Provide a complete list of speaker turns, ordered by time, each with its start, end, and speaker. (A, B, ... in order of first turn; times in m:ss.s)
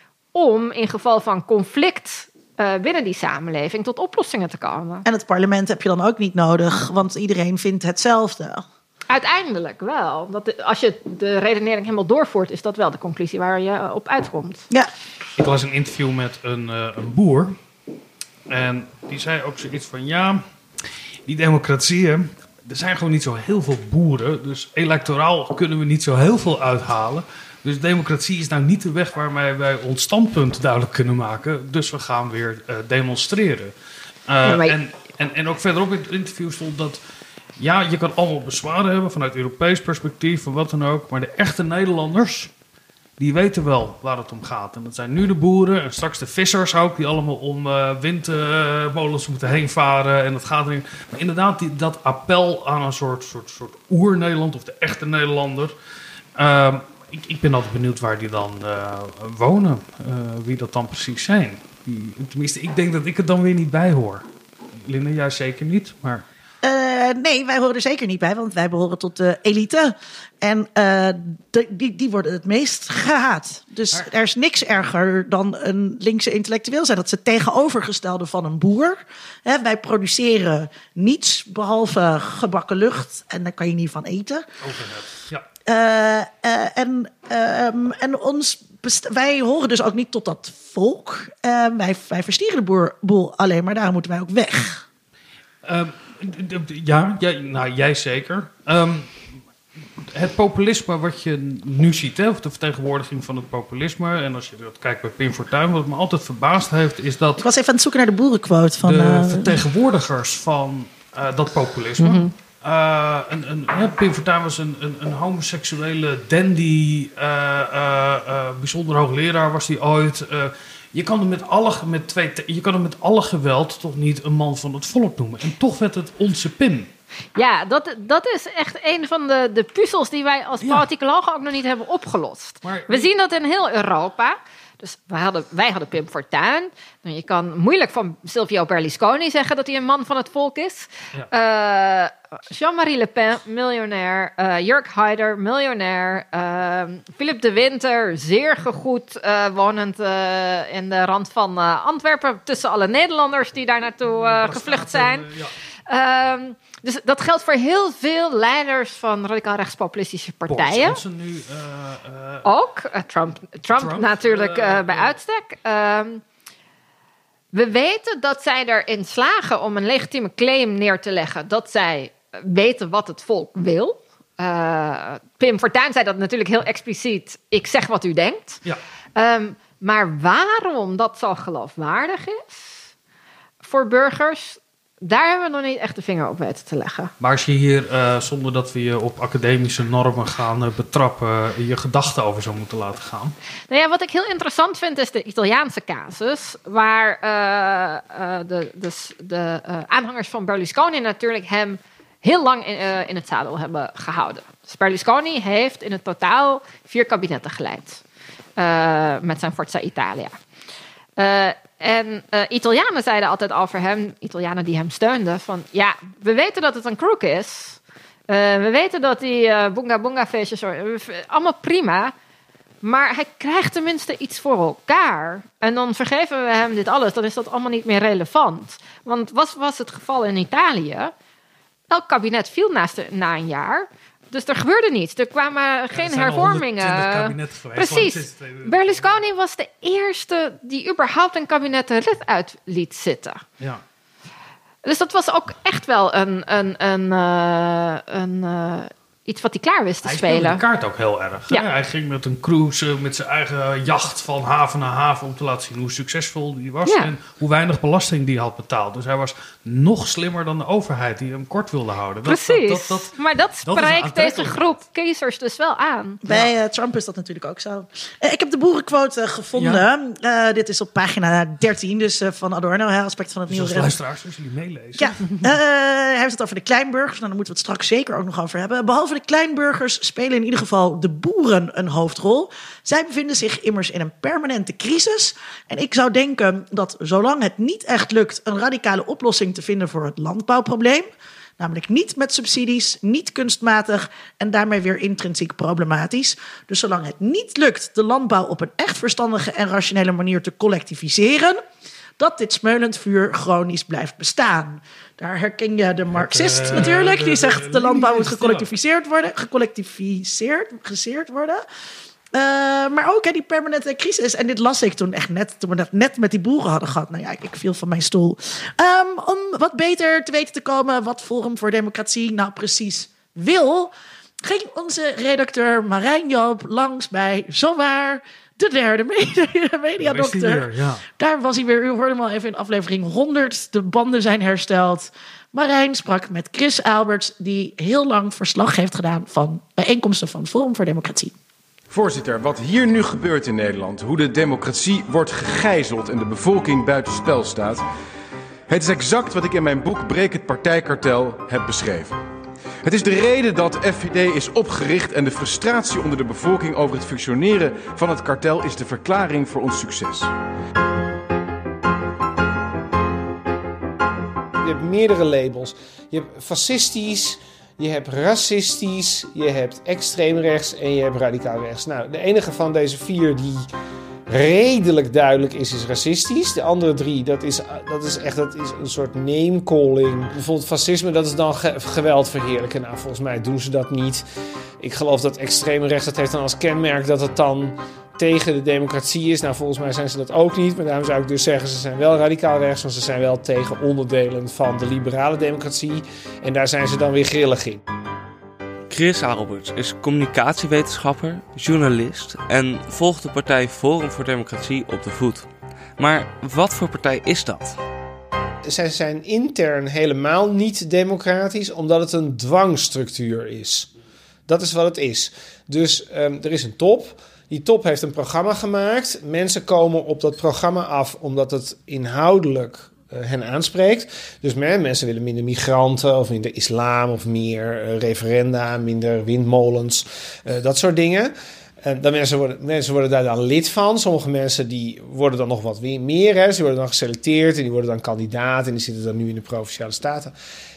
0:00.3-0:05.1 A
0:05.1-0:08.6 B
0:09.1-0:14.7 A
0:15.4-0:17.6 C
0:18.5-0:20.4 C
0:21.3-0:33.7 C
0:34.3-0:37.0 C
0:34.4-0:34.8 A
0:37.6-0:42.5 C
0:43.2-0:55.7 C
0:56.4-1:04.3 C
1:04.8-1:06.3 C
1:06.6-1:24.4 B
1:24.6-1:25.5 C
1:25.7-1:34.8 B
1:35.6-1:39.2 C
1:40.0-1:47.4 C
1:47.4-1:49.5 B
1:48.8-2:06.9 C
1:52.0-1:52.3 A
2:07.4-2:35.3 A
2:12.6-2:13.1 C
2:34.1-2:35.6 C
2:35.9-2:41.0 A
2:40.5-2:42.5 C
2:42.4-2:46.2 A
2:43.8-2:45.2 C
2:47.5-2:58.6 A
2:59.2-3:02.8 A
3:03.6-3:07.1 A
3:07.2-3:13.3 C
3:13.7-3:28.0 A
3:28.6-3:30.3 A
3:31.2-3:37.8 A
3:38.3-3:42.1 A
3:42.8-3:51.1 A
3:51.9-4:03.4 A
3:55.9-3:59.2 C
4:04.8-4:10.6 A
4:10.0-4:23.1 C
4:16.9-4:17.1 A
4:22.2-4:26.2 A
4:23.6-4:24.8 C
4:26.2-4:34.0 B
4:29.5-4:29.8 C
4:33.5-4:35.4 C
4:35.0-4:51.1 B
4:51.6-5:01.6 B
5:02.2-5:11.6 B
5:06.1-5:08.7 C
5:12.3-5:23.9 B
5:24.4-5:41.3 B
5:30.0-5:31.0 C
5:41.9-5:47.8 D
5:48.7-5:52.2 D
5:52.8-6:00.3 D
6:04.6-6:13.7 E
6:14.3-6:24.2 E
6:24.8-6:37.8 E
6:38.9-6:47.8 F
6:48.7-6:53.9 E
6:54.5-7:11.3 E
7:11.8-7:20.4 E